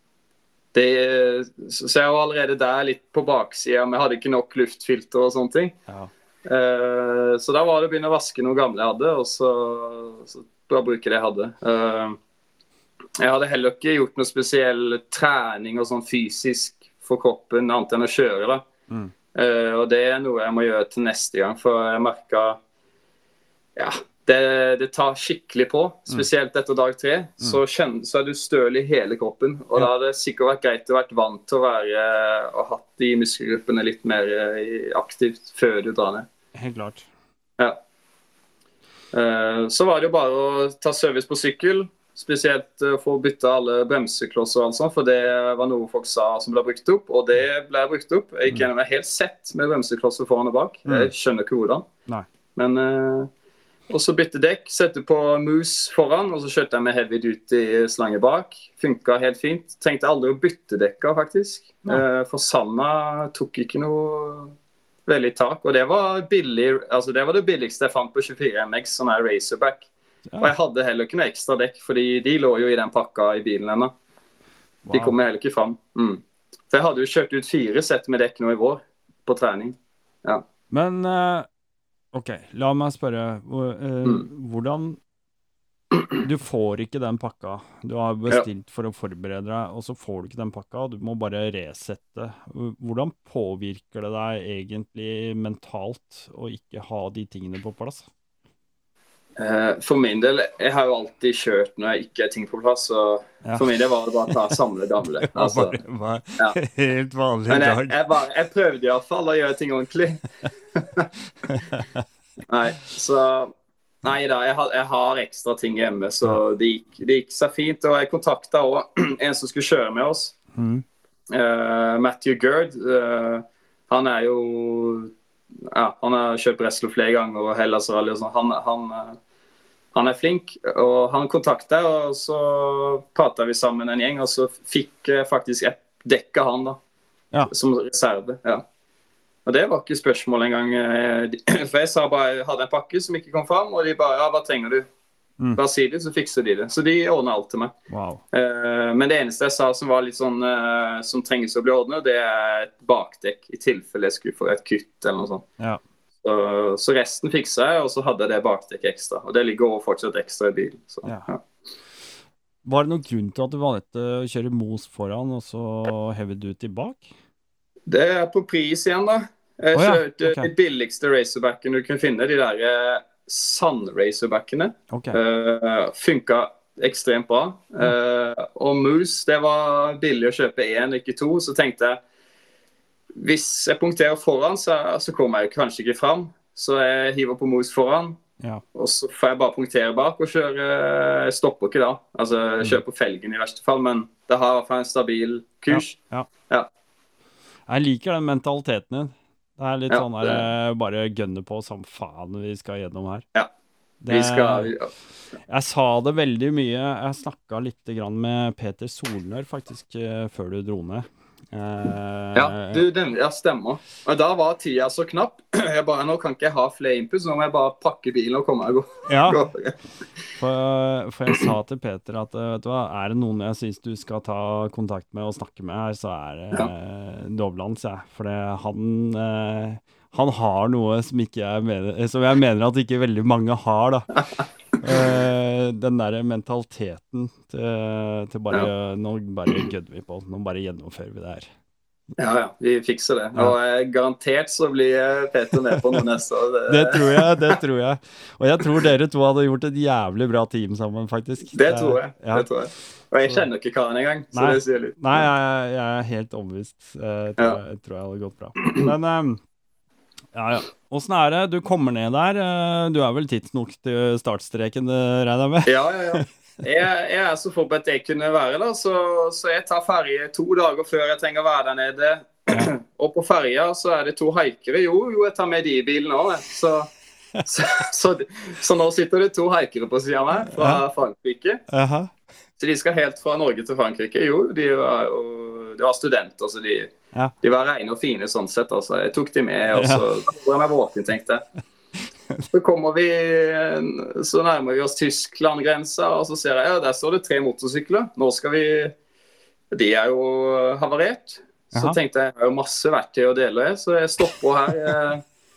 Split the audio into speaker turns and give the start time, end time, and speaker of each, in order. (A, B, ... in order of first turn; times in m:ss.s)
0:00.7-0:05.8 A
0:06.4-0:12.2 A
0:13.2-0:18.6 A
0:19.3-0:22.6 A
0:23.8-0:36.3 A
0:36.5-0:37.1 B
0:39.1-0:51.8 A
0:50.8-0:51.1 B
0:52.6-0:53.3 A
0:53.9-1:04.5 A
1:05.0-1:09.9 A
1:10.3-1:10.5 B
1:10.4-1:13.9 A
1:14.8-1:15.2 B
1:14.9-1:20.4 A
1:20.7-1:21.5 B
1:22.1-1:25.0 B
1:26.2-1:38.1 B
1:39.4-1:45.8 A
1:43.4-1:43.7 B
1:45.2-1:48.0 B
1:47.5-1:50.2 A
1:50.7-1:51.1 A
1:51.4-1:52.0 B
1:52.5-1:53.5 A
1:54.0-2:00.4 A
2:00.5-2:00.8 B
2:01.3-2:05.1 A
2:05.6-2:09.2 A
2:09.9-2:16.8 A
2:17.5-2:18.6 A
2:19.4-2:24.9 A
2:25.6-2:27.7 A
2:27.9-2:28.2 B
2:28.3-2:35.4 A
2:36.2-2:41.4 A
2:42.6-2:47.1 B
2:47.9-3:02.0 A
2:49.7-2:50.5 B
2:54.9-2:55.2 B
3:03.1-3:08.2 A
3:08.7-3:16.0 A
3:15.7-3:16.3 B
3:17.7-3:23.2 B
3:19.9-3:20.4 A
3:24.0-3:24.7 B
3:24.1-3:24.9 A
3:25.5-3:32.8 B
3:32.3-3:39.7 A
3:39.1-3:39.4 B
3:40.4-3:54.2 B
3:54.8-4:01.5 B
3:54.9-3:55.2 A
4:02.2-4:07.6 A
4:06.7-4:12.5 B
4:11.5-4:15.2 A
4:14.3-4:19.4 B
4:20.3-4:26.2 B
4:25.6-4:41.6 A
4:40.5-4:40.8 B
4:41.7-4:42.1 B
4:42.6-4:46.9 A
4:47.4-4:51.4 A
4:49.7-4:50.1 B
4:52.5-4:58.9 A
4:59.7-5:05.2 A